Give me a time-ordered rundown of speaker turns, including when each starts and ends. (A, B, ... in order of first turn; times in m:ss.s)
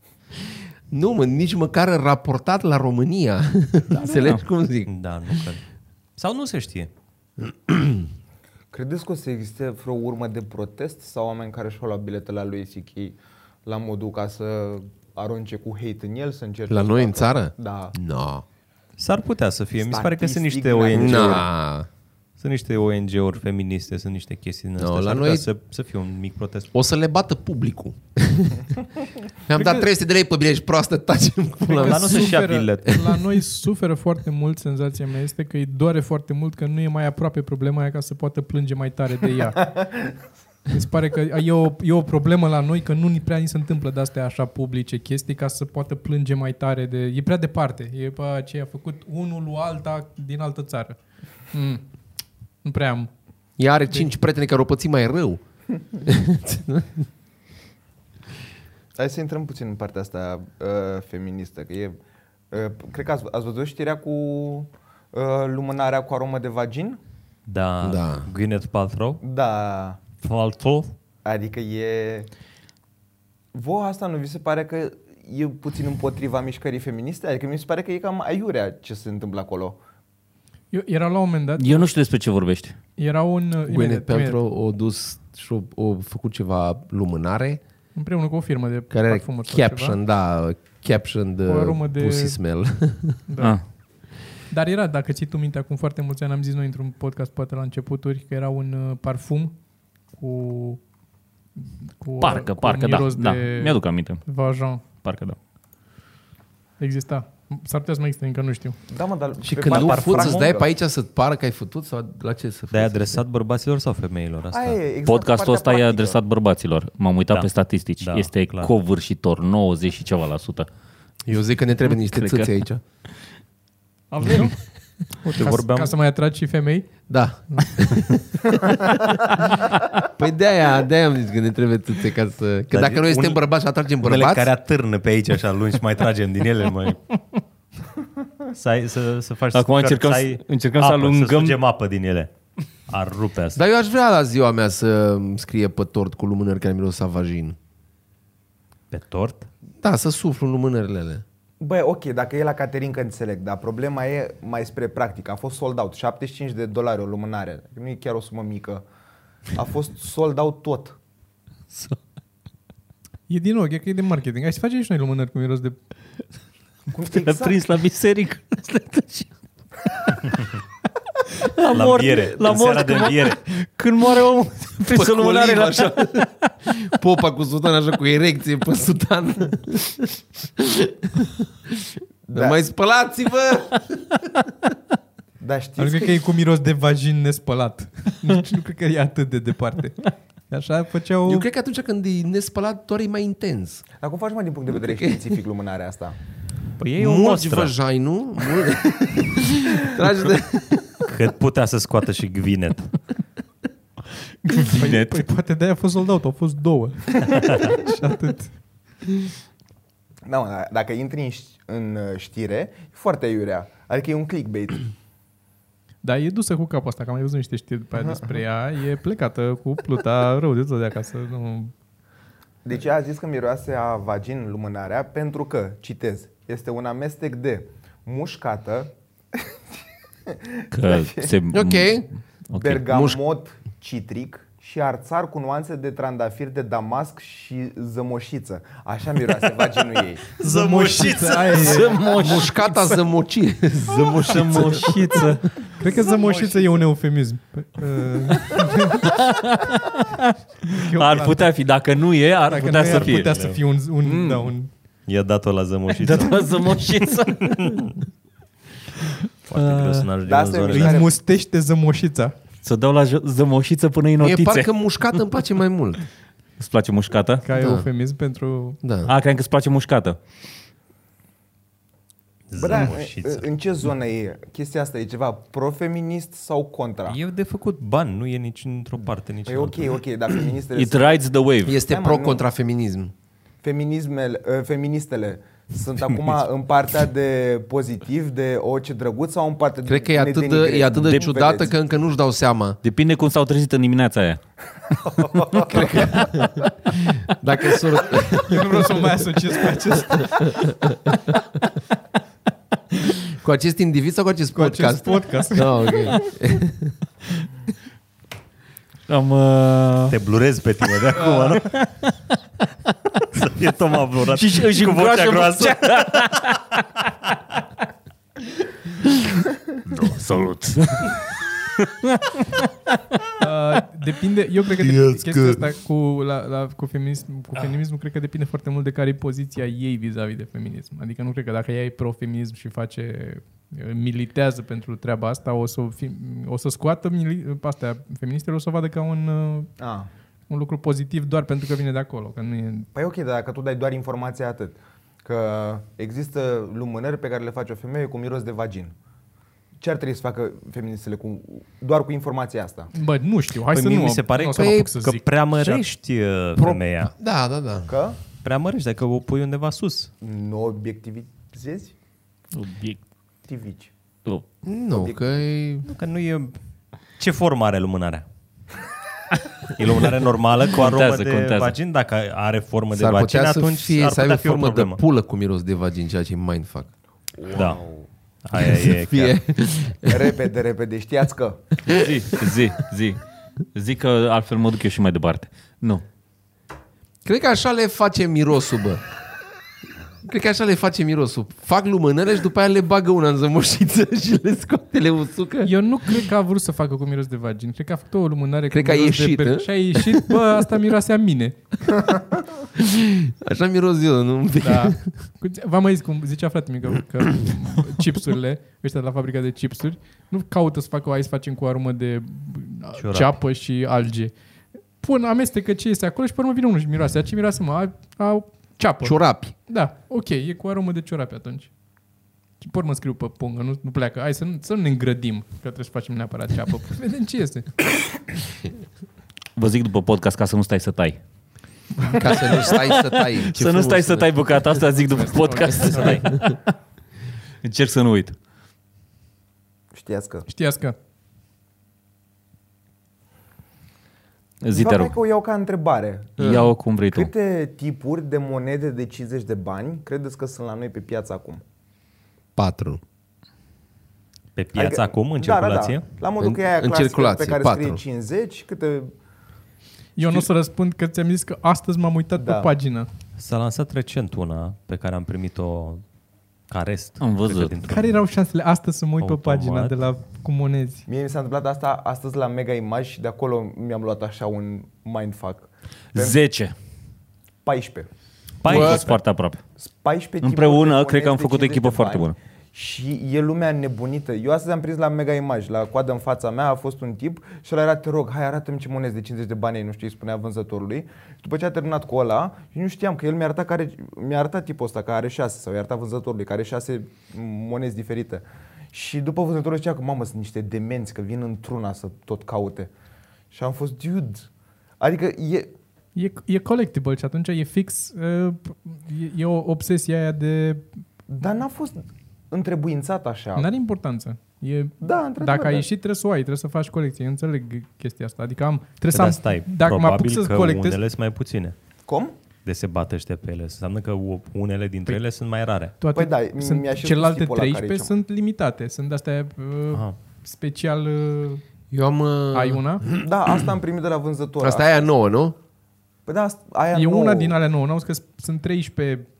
0:00.4-0:04.9 A
0:04.8-0:05.6 B
0:06.2-0:06.9 B
0:07.4-0:08.1 A
0:08.7-0:17.9 C
0:16.7-0:18.4 A
0:19.0-0:21.5 B
0:19.8-0:21.5 C
0:20.9-0:21.9 A
0:22.4-0:26.7 B
0:24.8-0:25.5 A
0:26.7-0:28.7 A
0:29.5-0:33.2 A
0:29.5-0:29.9 D
0:31.6-0:39.9 D
0:31.7-0:33.0 B
0:40.7-0:51.0 D
0:51.5-0:51.8 D
0:52.6-0:53.1 D
0:53.6-0:55.4 A
0:56.0-0:57.0 A
0:59.0-1:02.0 C
1:02.5-1:07.0 C
1:07.4-1:09.2 B
1:07.8-1:08.3 A
1:09.2-1:10.0 C
1:10.2-1:10.9 B
1:11.2-1:12.3 C
1:13.5-1:19.8 C
1:20.7-1:21.9 D
1:21.6-1:22.8 E
1:23.0-1:24.4 D
1:23.7-1:27.6 A
1:27.9-1:30.0 D
1:28.9-1:33.2 A
1:31.5-1:32.4 D
1:33.3-1:33.7 D
1:34.5-1:39.5 D
1:40.1-1:40.8 D
1:41.6-1:44.8 D
1:42.2-1:44.2 E
1:44.9-1:45.4 E
1:46.8-1:48.8 D
1:48.9-1:50.7 C
1:49.4-1:53.2 A
1:49.7-1:50.4 B
1:52.7-1:54.8 B
1:54.5-1:56.2 C
1:55.0-2:00.7 E
1:58.0-1:58.7 B
2:01.3-2:02.8 A
2:01.8-2:02.5 E
2:04.1-2:04.6 D
2:05.2-2:07.0 D
2:05.3-2:05.9 B
2:07.1-2:09.1 A
2:07.6-2:07.8 D
2:10.0-2:14.5 A
2:12.7-2:13.4 B
2:14.0-2:17.0 B
2:18.5-2:22.3 B
2:19.5-2:21.6 E
2:22.9-2:23.6 B
2:23.5-2:27.6 A
2:28.9-2:29.5 B
2:29.8-2:31.2 A
2:31.6-2:38.8 C
2:39.5-2:41.0 C
2:43.3-2:45.8 D
2:46.9-2:47.6 C
2:47.1-2:49.3 E
2:51.3-2:56.5 E
2:51.7-2:53.4 B
2:54.9-3:04.0 A
3:02.3-3:02.6 C
3:05.4-3:06.2 C
3:05.8-3:11.5 D
3:11.2-3:13.8 A
3:14.0-3:16.2 C
3:14.8-3:15.3 A
3:16.8-3:17.7 B
3:17.0-3:21.0 A
3:21.1-3:22.9 B
3:24.4-3:28.5 D
3:24.5-3:25.2 E
3:30.2-3:34.9 C
3:36.0-3:41.7 D
3:38.0-3:38.4 C
3:42.6-3:49.5 C
3:50.3-3:51.3 C
3:50.7-3:52.8 E
3:51.5-3:52.1 A
3:52.5-4:00.2 C
3:52.8-3:53.2 A
4:00.4-4:01.8 B
4:00.4-4:02.2 D
4:01.5-4:03.0 E
4:02.0-4:05.3 A
4:04.0-4:05.6 E
4:04.5-4:05.2 D
4:05.8-4:09.2 D
4:05.8-4:06.7 C
4:08.3-4:13.3 E
4:10.7-4:11.5 D
4:12.5-4:14.7 D
4:12.5-4:13.6 B
4:14.0-4:14.5 E
4:15.0-4:16.6 B
4:16.0-4:17.9 E
4:17.4-4:17.9 B
4:19.5-4:21.0 B
4:19.5-4:21.2 C
4:19.6-4:20.1 E
4:20.7-4:22.3 D
4:22.6-4:25.3 E
4:24.2-4:26.0 A
4:26.6-4:27.4 E
4:27.4-4:28.8 D
4:27.5-4:27.9 A
4:28.8-4:29.1 A
4:29.0-4:30.2 E
4:32.5-4:33.4 B
4:32.6-4:37.2 C
4:37.0-4:39.9 B
4:39.4-4:41.2 C
4:40.7-4:41.8 E
4:41.6-4:43.1 A
4:41.8-4:42.4 C
4:43.6-4:51.7 C
4:49.8-4:52.8 A
4:52.8-4:54.4 E
4:55.0-4:56.1 C
4:55.4-4:56.2 E
4:55.6-4:56.6 A
4:57.2-4:59.2 A
4:58.3-5:00.8 D
5:00.0-5:01.3 A
5:03.3-5:06.9 A
5:04.5-5:06.2 D
5:09.1-5:10.2 E
5:10.1-5:11.8 B
5:11.0-5:12.4 E
5:13.3-5:16.2 B
5:14.3-5:17.4 E
5:19.0-5:23.3 E
5:23.4-5:39.7 D
5:39.8-5:40.1 C
5:40.5-5:42.9 D
5:42.9-5:48.9 C
5:49.8-5:52.9 C
5:52.9-5:55.2 D
5:53.7-5:57.1 B
5:54.5-5:54.9 A
5:55.6-5:55.9 A
5:56.5-5:57.9 A
5:57.9-5:58.2 C
5:58.4-6:00.1 B
6:00.2-6:01.9 C
6:02.5-6:03.0 E
6:03.4-6:03.9 C
6:04.6-6:05.9 A
6:04.9-6:05.2 C
6:05.8-6:06.6 B
6:07.2-6:08.2 B
6:09.6-6:15.0 B
6:10.7-6:11.7 E
6:12.9-6:16.9 A
6:17.4-6:18.1 C
6:17.5-6:17.8 B
6:18.4-6:19.4 B
6:18.5-6:20.4 A
6:20.0-6:21.6 C
6:21.9-6:22.6 A
6:21.9-6:23.2 E
6:23.7-6:26.0 E
6:27.2-6:29.0 A
6:30.2-6:36.2 A
6:35.6-6:42.1 D
6:38.7-6:40.6 A
6:42.7-6:45.1 A
6:44.6-6:54.3 D
6:53.0-6:53.4 B
6:55.0-7:01.7 D
6:59.0-6:59.5 A
7:02.6-7:07.7 D
7:09.6-7:11.2 E
7:12.0-7:12.8 D
7:12.1-7:14.4 A
7:12.6-7:16.7 E
7:15.1-7:16.4 D
7:17.6-7:18.4 E
7:19.9-7:20.5 C
7:20.5-7:21.0 D
7:24.6-7:25.1 E
7:24.7-7:31.6 C
7:26.4-7:26.7 A
7:26.4-7:27.3 E
7:32.6-7:33.0 A
7:34.6-7:36.0 B
7:34.7-7:39.1 C
7:36.4-7:38.0 A
7:40.2-7:43.1 D
7:42.4-7:42.7 C
7:43.4-7:46.0 B
7:46.7-7:48.2 B
7:47.2-7:47.7 E
7:47.8-7:51.0 D
7:49.2-7:49.9 B
7:51.1-7:56.4 C
7:56.1-7:56.7 E
7:57.6-7:58.1 C
7:58.6-7:59.2 B
7:58.6-7:59.6 E
7:58.7-7:59.0 A
7:59.8-8:22.9 C
8:00.4-8:02.3 E
8:23.5-8:24.5 C
8:25.0-8:25.7 C
8:26.1-8:30.8 D
8:31.3-8:33.7 C
8:33.5-8:41.0 D
8:35.0-8:35.9 C
8:39.1-8:41.8 B
8:42.1-8:42.3 C
8:42.6-8:45.9 B
8:46.0-8:51.6 D
8:46.1-8:48.1 C
8:49.9-8:50.2 B
8:51.9-8:53.2 A
8:52.5-8:53.0 D
8:53.1-8:55.0 C
8:54.6-8:55.6 A
8:56.3-8:57.6 C
8:56.9-8:59.2 D